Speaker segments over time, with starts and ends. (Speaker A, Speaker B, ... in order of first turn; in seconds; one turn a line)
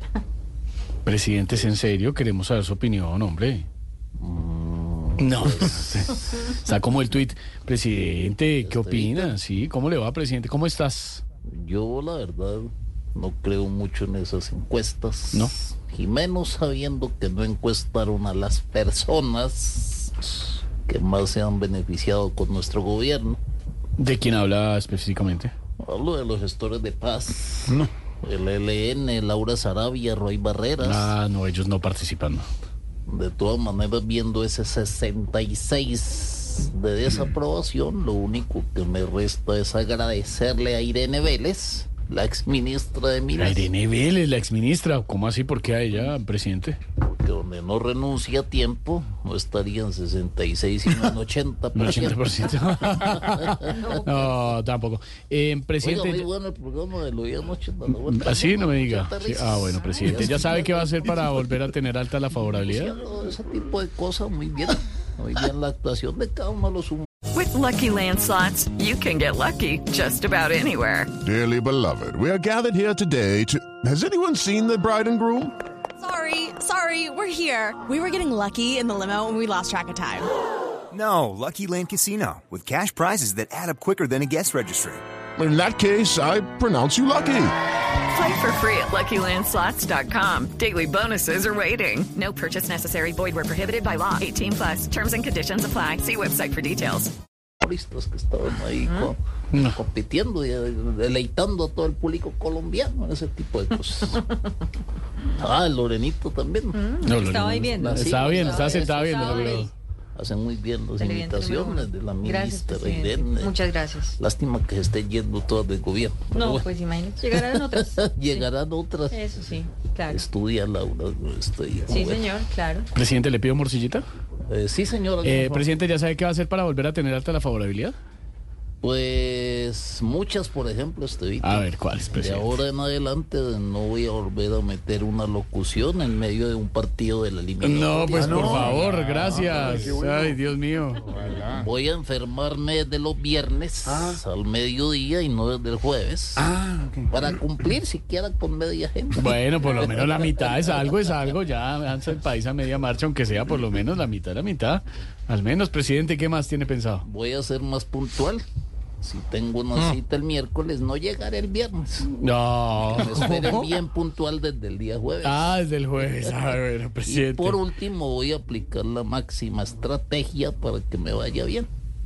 Speaker A: 1.1-3.6
Speaker B: 4.2-5.9
Speaker A: 5.2-11.2
Speaker B: 8.6-9.3
Speaker B: 11.5-23.4
Speaker A: 24.0-25.5
Speaker B: 25.8-31.1
Speaker A: 30.8-32.4
Speaker B: 33.1-43.7
Speaker A: 43.4-46.8
Speaker B: 47.0-52.4
Speaker A: 51.8-56.3
Speaker B: 53.0-53.8
Speaker C: 53.8-54.3
Speaker B: 55.8-61.3
Speaker A: 57.9-62.9
Speaker B: 62.7-67.1
Speaker D: 67.3-71.1
Speaker E: 71.2-75.5
Speaker F: 76.0-80.3
Speaker G: 80.9-85.0
Speaker E: 85.4-87.5
Speaker D: 88.1-97.1
Speaker B: 97.6-104.2
Speaker B: 105.4-107.0
Speaker C: 106.7-109.7
Speaker A: 107.0-109.7
Speaker B: 107.8-113.6
Speaker C: 111.0-114.2
Speaker B: 114.2-116.7
Speaker C: 116.3-118.5
Speaker B: 117.2-119.5
Speaker C: 119.1-120.2
Speaker B: 120.1-122.3
Speaker C: 121.9-122.9
Speaker A: 122.9-124.0
Speaker B: 124.5-125.7
Speaker A: 125.2-127.9
Speaker B: 128.8-138.8
Speaker A: 131.4-132.6
Speaker A: 137.6-141.0
Speaker E: 138.2-140.4
Speaker E: 141.1-141.6
Speaker B: 141.5-146.5
Speaker E: 146.4-147.1
Speaker B: 147.1-151.1
Speaker A: 149.1-157.0
Speaker B: 157.0-158.4
Speaker B: 159.0-162.1
Speaker A: 162.2-163.7
Speaker B: 162.8-171.7
Speaker A: 165.2-167.6